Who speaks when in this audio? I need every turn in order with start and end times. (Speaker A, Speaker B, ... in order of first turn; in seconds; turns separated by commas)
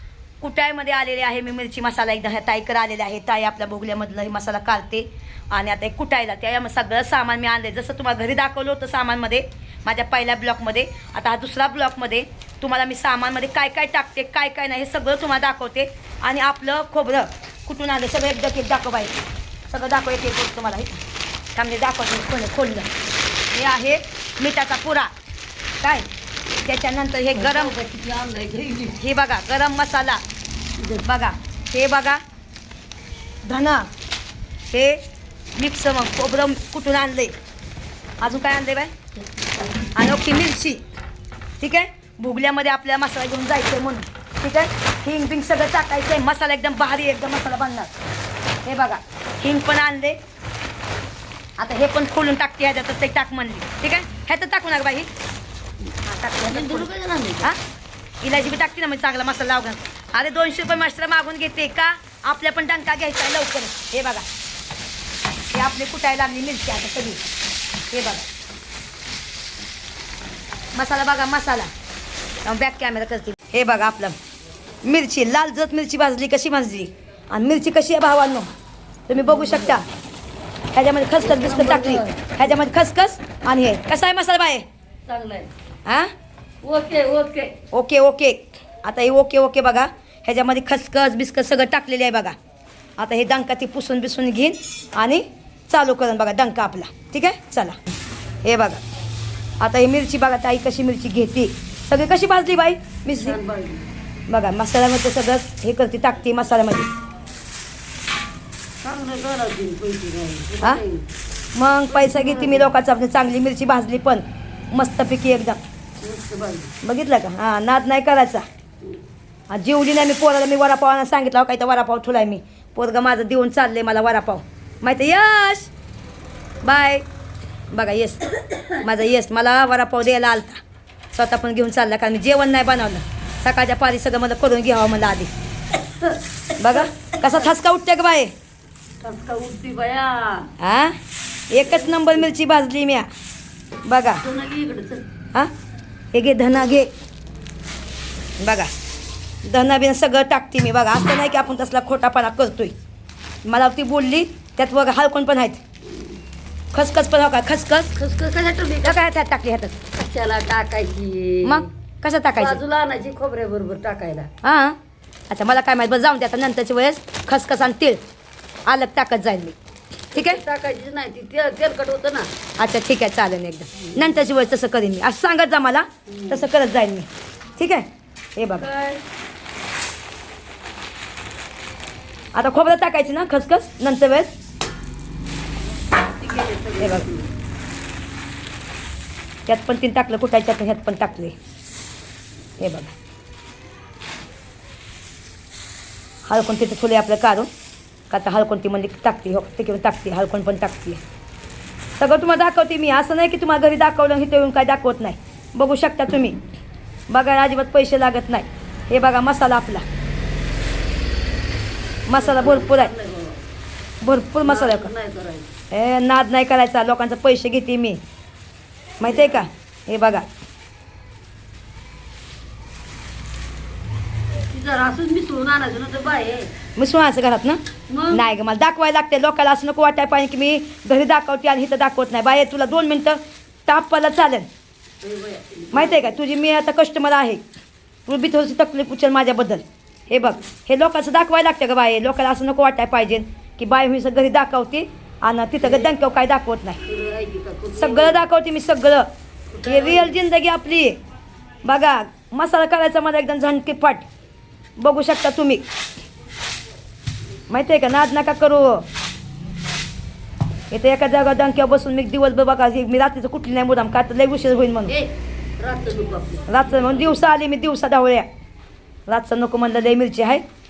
Speaker A: 0.4-21.0, Speaker A: 21.6-22.9, Speaker A: 23.5-25.1, Speaker A: 25.8-26.1, Speaker A: 26.6-27.7, Speaker B: 27.3-29.0, Speaker A: 29.0-30.2, Speaker B: 30.8-31.1, Speaker A: 31.0-32.2, Speaker A: 33.5-33.9, Speaker A: 34.7-35.0, Speaker A: 35.5-37.3, Speaker A: 38.2-38.9, Speaker B: 39.2-39.9, Speaker A: 39.9-40.8, Speaker A: 41.6-47.9, Speaker A: 48.6-50.2, Speaker A: 51.6-55.1, Speaker A: 56.0-57.6, Speaker B: 56.5-57.5, Speaker A: 58.2-64.2, Speaker A: 65.5-67.2, Speaker A: 67.9-68.2, Speaker A: 70.7-71.7, Speaker A: 72.4-74.2, Speaker A: 74.8-78.5, Speaker A: 79.1-79.9, Speaker B: 79.1-79.8, Speaker A: 80.7-84.6, Speaker B: 81.2-82.4, Speaker B: 85.0-85.5, Speaker B: 86.6-87.6, Speaker A: 87.7-92.3, Speaker A: 93.0-97.8, Speaker A: 98.4-98.8, Speaker A: 99.6-103.4, Speaker B: 103.1-103.9, Speaker A: 104.3-106.9, Speaker B: 108.8-111.1, Speaker A: 111.5-115.6, Speaker B: 111.9-112.7, Speaker B: 116.0-116.7, Speaker A: 116.8-118.5, Speaker A: 119.5-125.7, Speaker A: 126.6-127.0, Speaker A: 127.7-130.6, Speaker A: 131.1-135.3, Speaker B: 135.7-137.5, Speaker A: 136.6-138.3, Speaker B: 139.0-140.5, Speaker A: 140.6-141.0, Speaker A: 141.5-143.1, Speaker A: 143.9-144.2, Speaker B: 144.2-145.1, Speaker A: 146.1-146.9, Speaker A: 148.4-148.7, Speaker A: 149.4-152.7, Speaker A: 153.4-155.6, Speaker A: 156.7-157.9, Speaker B: 158.0-159.1, Speaker A: 158.8-159.8, Speaker B: 159.9-161.7, Speaker A: 161.4-162.6, Speaker B: 162.3-164.3, Speaker A: 164.4-164.8, Speaker A: 165.3-168.0, Speaker A: 168.7-169.6, Speaker B: 170.1-172.3, Speaker A: 170.1-170.4, Speaker A: 172.6-178.7, Speaker B: 173.8-174.2, Speaker B: 176.1-176.5, Speaker B: 178.5-179.0, Speaker A: 182.3-184.3, Speaker B: 186.2-187.3, Speaker A: 186.8-187.1, Speaker A: 189.5-191.3, Speaker A: 192.6-192.9, Speaker A: 196.2-197.5, Speaker A: 198.1-201.0, Speaker A: 202.0-206.4, Speaker A: 207.1-209.8, Speaker A: 212.1-212.9, Speaker B: 212.1-213.4, Speaker A: 214.0-214.9, Speaker B: 214.4-215.5, Speaker A: 215.7-218.0, Speaker A: 219.0-220.3, Speaker B: 219.1-219.4, Speaker B: 224.5-226.5, Speaker A: 226.8-234.5, Speaker B: 227.9-228.2, Speaker B: 235.0-236.2, Speaker A: 235.7-237.4, Speaker A: 238.1-246.8, Speaker B: 245.6-245.9, Speaker B: 246.8-248.2, Speaker A: 247.8-249.1, Speaker B: 249.5-250.2, Speaker A: 249.6-251.0, Speaker A: 251.6-254.1, Speaker A: 254.8-255.6, Speaker A: 257.5-258.9, Speaker A: 260.7-264.9, Speaker B: 264.9-267.2, Speaker A: 266.5-268.3, Speaker A: 269.1-270.4